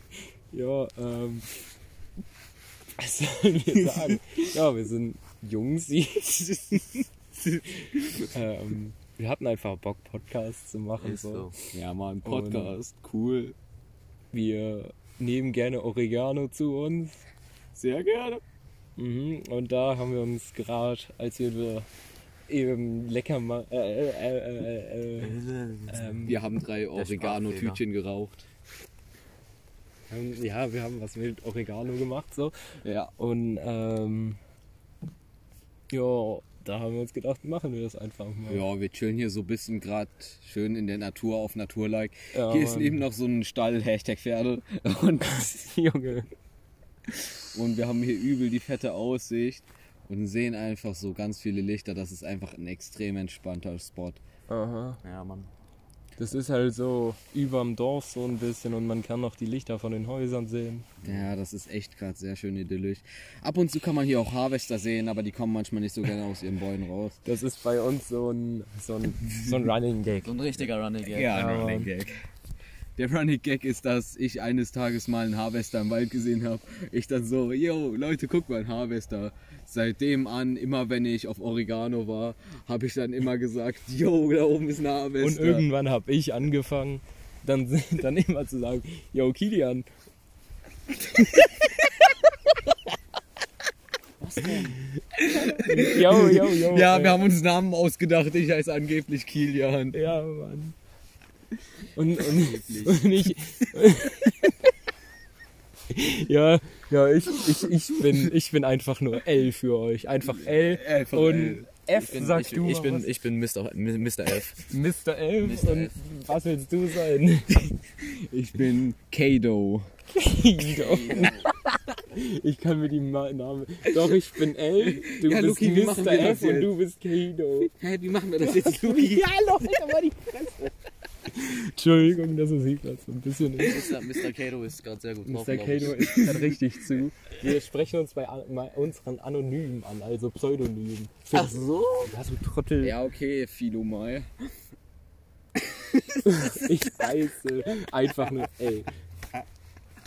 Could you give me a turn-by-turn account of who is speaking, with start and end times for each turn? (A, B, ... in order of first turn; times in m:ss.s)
0:00.5-0:01.5 A
0:03.0-0:06.8 A
0:03.7-0:04.4 B
0:06.7-0:08.3 B
0:08.3-0:11.5 A
0:11.0-0:11.6 C
0:11.7-0:13.6 B
0:12.2-0:12.7 A
0:14.3-0:17.2 A
0:17.8-0:18.4 B
0:19.0-0:21.9 A
0:22.5-0:25.4 A
0:25.2-0:26.2 C
0:25.9-0:26.4 A
0:26.2-0:28.5 B
0:26.9-0:27.8 C
0:30.1-0:32.5 A
0:32.8-0:33.1 B
0:33.2-0:34.4 A
0:35.9-0:38.6 A
0:38.5-0:45.7 B
0:42.3-0:43.0 A
0:45.3-0:46.3 A
0:47.5-0:54.2 B
0:54.5-0:55.0 A
0:55.0-0:55.5 C
0:56.2-1:00.9 A
1:01.0-1:01.3 C
1:01.0-1:07.2 B
1:07.2-1:10.6 A
1:10.2-1:11.6 C
1:11.0-1:12.2 B
1:11.3-1:11.9 A
1:13.0-1:25.7 B
1:25.2-1:29.9 A
1:31.2-1:31.9 A
1:34.2-1:40.0 B
1:35.5-1:37.2 A
1:39.9-1:40.8 A
1:41.9-1:44.6 A
1:42.2-1:43.3 B
1:45.9-1:53.1 A
1:50.2-1:52.3 B
1:51.9-1:54.6 C
1:54.7-1:57.7 A
1:55.4-1:55.9 C
1:57.9-1:59.9 B
2:00.2-2:07.7 A
2:00.6-2:01.5 B
2:04.8-2:06.7 B
2:07.8-2:09.3 B
2:08.4-2:10.6 A
2:11.3-2:13.9 A
2:13.6-2:16.1 C
2:15.2-2:23.0 A
2:15.9-2:16.5 B
2:21.3-2:22.1 C
2:22.8-2:24.3 B
2:25.7-2:26.8 B
2:26.2-2:28.9 A